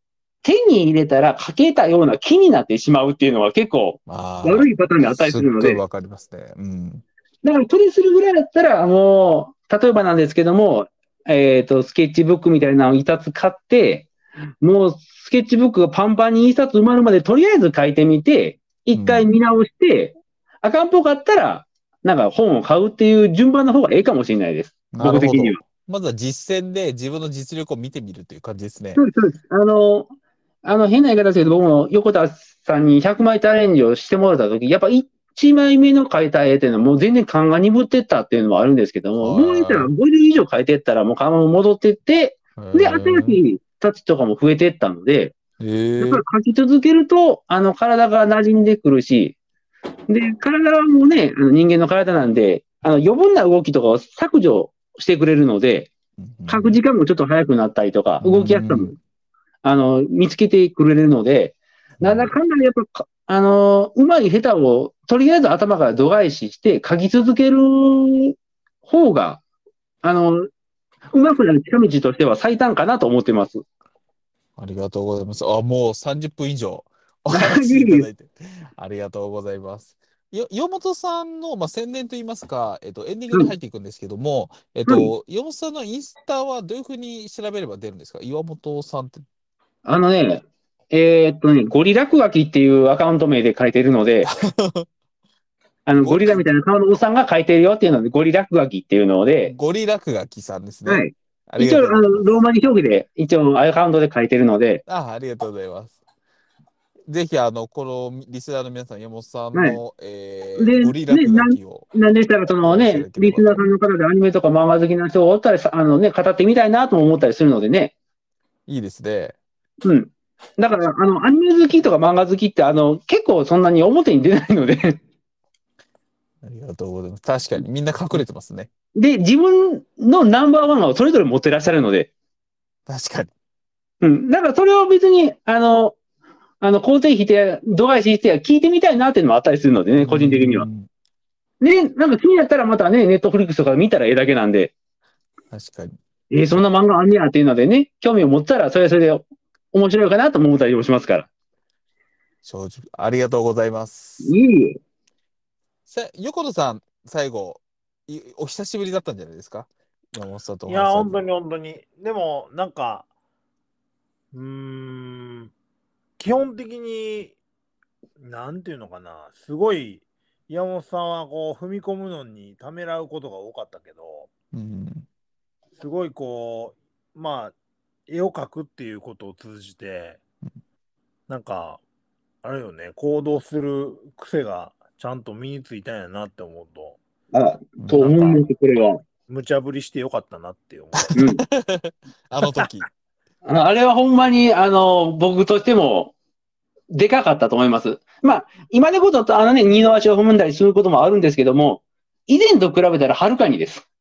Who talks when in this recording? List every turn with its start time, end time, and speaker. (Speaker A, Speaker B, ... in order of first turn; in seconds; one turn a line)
Speaker A: 0.4-5.8
Speaker B: 4.1-7.0
Speaker A: 7.4-14.1
Speaker A: 14.6-25.6
Speaker B: 18.9-19.3
Speaker B: 24.9-29.0
Speaker A: 28.9-30.1
Speaker A: 30.6-45.3
Speaker B: 39.2-39.9
Speaker B: 42.6-43.4
Speaker B: 45.6-46.2
Speaker A: 46.0-49.3
Speaker A: 50.1-55.9
Speaker B: 56.2-56.8
Speaker A: 56.5-58.9
Speaker B: 58.2-59.0
Speaker A: 59.6-69.4
Speaker B: 62.0-62.3
Speaker A: 70.0-70.5
Speaker A: 71.1-73.6
Speaker B: 74.6-89.2
Speaker A: 77.3-78.1
Speaker A: 89.8-94.3
Speaker B: 94.2-94.9
Speaker A: 95.8-99.5
Speaker B: 96.0-96.4
Speaker B: 99.5-102.3
Speaker A: 100.8-104.8
Speaker B: 104.8-106.0
Speaker B: 107.1-111.9
Speaker A: 109.5-109.8
Speaker A: 110.6-117.9
Speaker B: 112.6-113.6
Speaker B: 118.7-119.4
Speaker A: 119.8-125.0
Speaker B: 126.4-128.7
Speaker A: 128.9-132.1
Speaker B: 132.9-133.3
Speaker A: 134.0-135.9
Speaker A: 136.6-140.7
Speaker B: 140.0-140.9
Speaker A: 141.6-144.7
Speaker B: 145.5-146.0
Speaker A: 146.3-151.3
Speaker B: 152.4-154.3
Speaker A: 154.2-154.8
Speaker B: 155.9-161.3
Speaker C: 160.7-163.1
Speaker C: 164.3-165.5
Speaker C: 166.2-167.4
Speaker C: 168.2-174.3
Speaker B: 174.5-175.1
Speaker C: 175.8-177.5
Speaker C: 178.1-180.2
Speaker C: 181.3-181.8
Speaker C: 182.4-187.0
Speaker A: 187.3-189.0
Speaker B: 187.8-188.3
Speaker C: 189.3-191.2
Speaker A: 191.1-191.4
Speaker B: 191.3-192.8
Speaker A: 193.4-196.1
Speaker A: 196.9-203.8